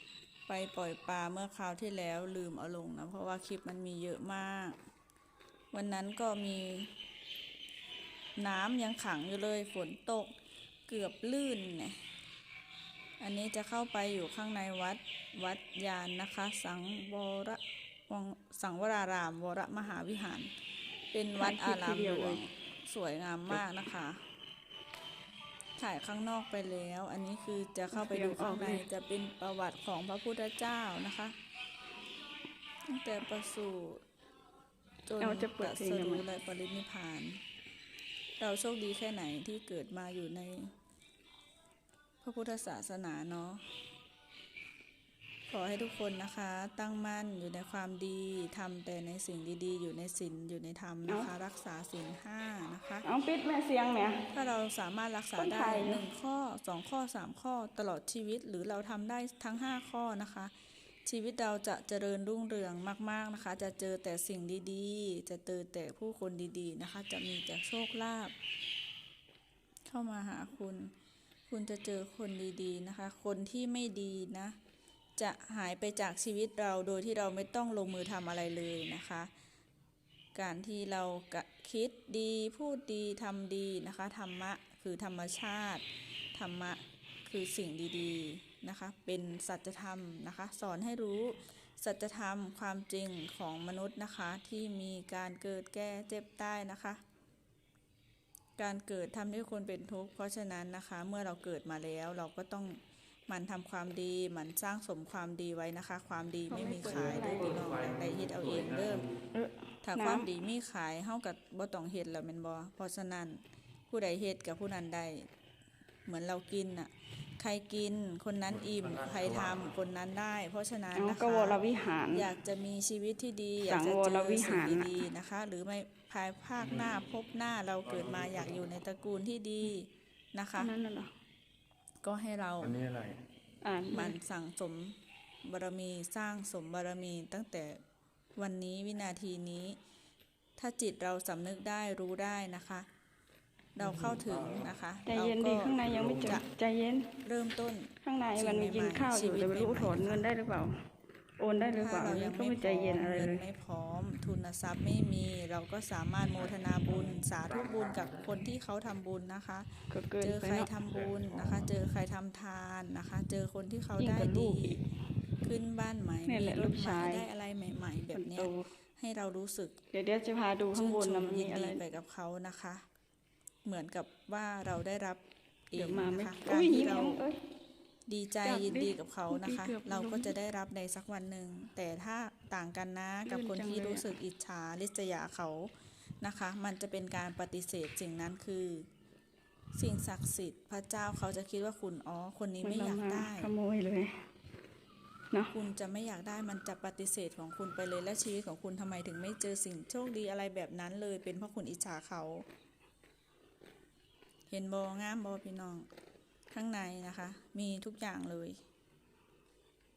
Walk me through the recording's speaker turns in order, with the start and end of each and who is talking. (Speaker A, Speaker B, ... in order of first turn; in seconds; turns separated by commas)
Speaker A: 0.5-4.8, Speaker A: 5.7-6.9, Speaker A: 8.4-10.3, Speaker A: 10.9-12.0, Speaker A: 13.2-20.5, Speaker A: 21.1-24.2, Speaker B: 21.4-22.4, Speaker A: 25.8-31.4, Speaker B: 27.9-28.8, Speaker A: 32.9-34.0, Speaker A: 35.0-37.4, Speaker B: 35.2-36.2, Speaker A: 38.4-40.7, Speaker A: 42.2-43.6, Speaker A: 45.5-53.0, Speaker B: 53.0-54.2, Speaker A: 54.3-60.5, Speaker B: 55.3-56.0, Speaker A: 61.0-68.3, Speaker A: 69.9-70.9, Speaker A: 71.5-74.5, Speaker A: 75.2-79.3, Speaker A: 80.3-97.0, Speaker A: 98.6-109.0, Speaker B: 106.5-107.6, Speaker C: 106.8-109.2, Speaker B: 109.3-110.3, Speaker A: 109.8-115.3, Speaker A: 116.0-121.6, Speaker C: 118.5-119.8, Speaker B: 120.9-122.3, Speaker A: 122.1-130.7, Speaker B: 123.6-125.0, Speaker C: 126.6-127.0, Speaker C: 127.8-128.6, Speaker B: 130.6-131.1, Speaker A: 132.0-132.8, Speaker C: 132.6-133.2, Speaker B: 133.6-134.2, Speaker A: 133.9-137.8, Speaker A: 138.3-139.8, Speaker A: 140.6-142.9, Speaker A: 143.7-146.4, Speaker C: 143.8-144.7, Speaker B: 145.1-147.1, Speaker C: 145.7-146.4, Speaker A: 147.2-150.3, Speaker B: 148.0-150.7, Speaker B: 151.4-153.4, Speaker A: 151.7-164.8, Speaker C: 156.4-158.4, Speaker B: 159.9-160.7, Speaker C: 160.8-161.7, Speaker B: 163.9-164.8, Speaker A: 165.4-169.8, Speaker B: 166.2-167.2, Speaker B: 168.1-168.7, Speaker B: 169.9-171.8, Speaker A: 170.7-172.8, Speaker A: 173.6-177.2, Speaker B: 175.7-177.4, Speaker A: 178.1-188.9, Speaker B: 178.4-180.3, Speaker B: 183.2-184.1, Speaker A: 189.7-193.5, Speaker B: 192.6-194.2, Speaker A: 195.5-202.4, Speaker A: 204.5-205.9, Speaker A: 206.5-208.6